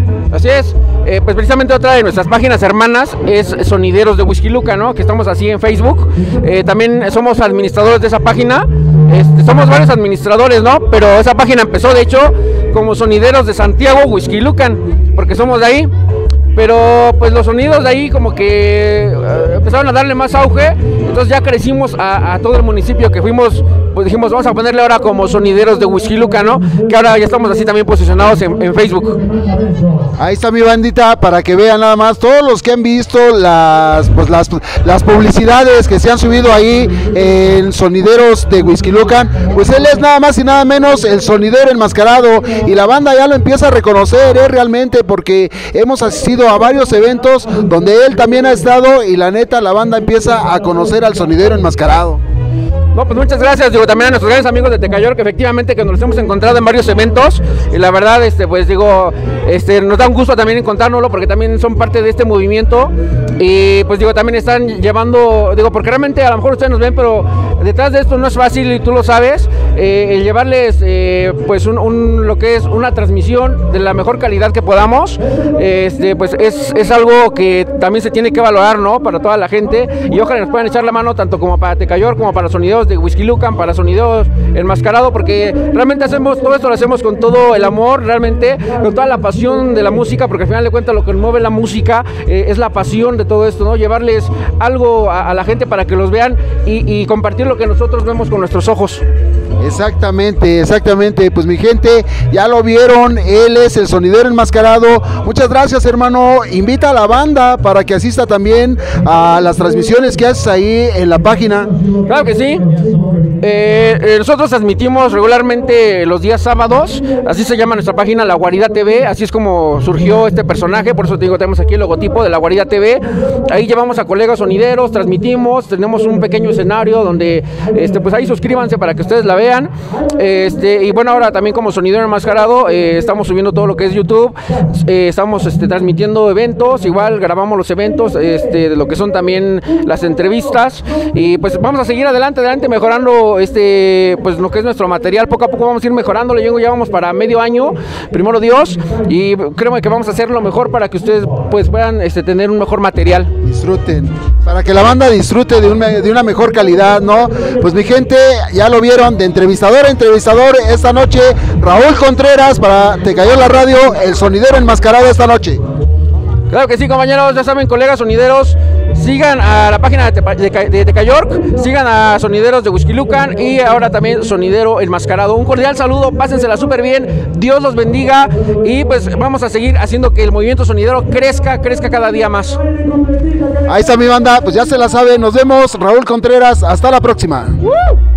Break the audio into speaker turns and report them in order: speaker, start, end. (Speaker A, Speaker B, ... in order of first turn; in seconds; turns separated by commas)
Speaker A: 0.3-15.9, Speaker A: 16.5-29.3, Speaker B: 30.2-52.2, Speaker A: 52.9-99.0, Speaker B: 99.6-111.7, Speaker A: 112.1-112.7, Speaker A: 113.4-153.3, Speaker B: 153.4-165.6, Speaker A: 166.5-182.6, Speaker B: 183.7-187.6, Speaker A: 187.6-188.0